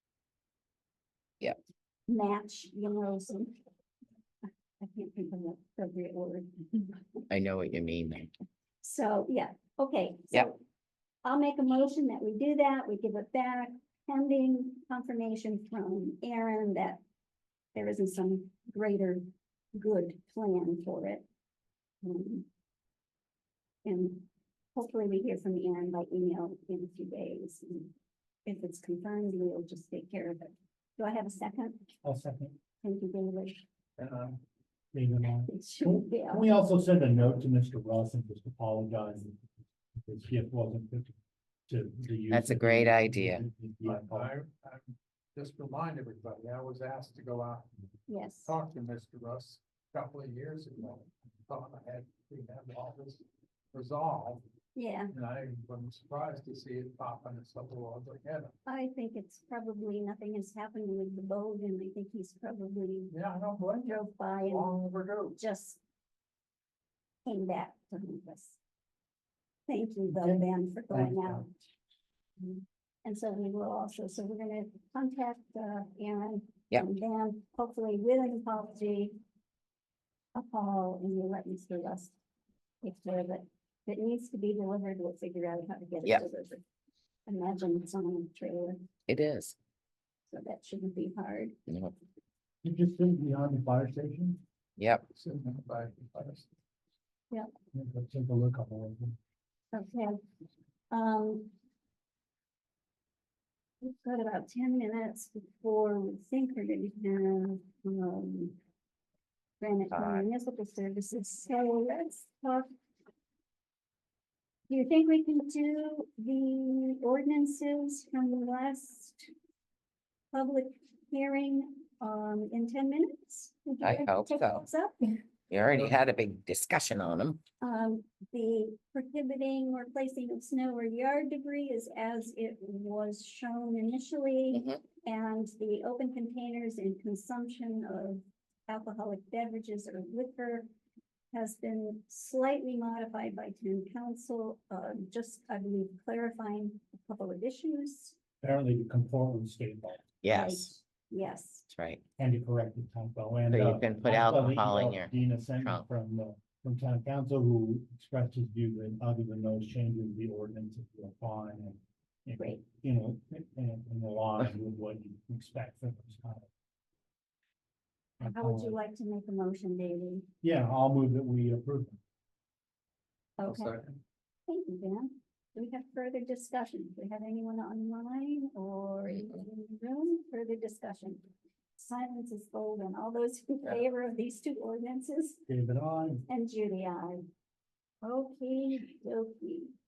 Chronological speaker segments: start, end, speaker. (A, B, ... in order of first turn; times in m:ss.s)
0:02.1-0:03.6 A
0:04.8-0:07.2 A
0:07.3-0:08.3 B
0:08.8-0:10.6 A
0:11.2-0:17.0 A
0:17.8-0:21.2 A
0:22.0-0:22.5 A
0:23.8-0:27.9 A
0:28.5-0:31.9 A
0:32.0-0:32.6 C
0:32.8-0:33.6 A
0:34.0-0:34.4 D
0:34.9-0:39.4 C
0:35.5-0:36.5 A
0:40.0-0:41.2 C
0:41.7-0:44.3 C
0:42.3-0:43.4 B
0:43.8-0:47.7 D
0:48.1-0:48.6 A
0:48.4-0:54.4 D
0:54.8-0:55.1 A
0:55.1-0:58.5 D
0:58.7-1:03.1 A
1:03.1-1:05.4 D
1:03.8-1:04.8 A
1:05.4-1:05.8 A
1:07.3-1:08.6 A
1:09.7-1:11.5 A
1:10.1-1:11.5 C
1:12.4-1:19.2 A
1:20.3-1:22.1 A
1:22.8-1:26.6 A
1:27.3-1:28.8 A
1:29.1-1:29.6 B
1:30.3-1:31.5 A
1:31.7-1:31.9 B
1:32.6-1:34.4 C
1:34.8-1:35.0 B
1:35.2-1:36.5 D
1:37.7-1:39.2 C
1:39.7-1:40.2 A
1:40.9-1:41.5 A
1:43.8-1:48.6 A
1:49.6-1:52.7 A
1:49.9-1:50.2 B
1:54.7-1:59.3 A
2:00.3-2:05.2 A
2:03.8-2:04.6 B
2:05.5-2:07.4 B
2:05.7-2:06.0 D
2:07.6-2:20.7 A
2:14.5-2:14.8 B
2:21.3-2:28.2 A
2:28.4-2:30.0 C
2:30.2-2:30.7 B
2:30.3-2:31.7 A
2:31.7-2:32.0 B
2:32.2-2:46.5 C
2:33.5-2:35.1 B
2:42.4-2:42.6 A
2:48.2-2:48.8 C
2:48.2-2:50.3 A
2:50.4-2:52.0 C
2:53.4-2:53.8 A
2:53.4-2:54.0 D
2:54.5-3:01.2 A
3:01.8-3:05.4 A
3:05.5-3:06.3 C
3:06.3-3:07.2 A
3:08.0-3:09.7 A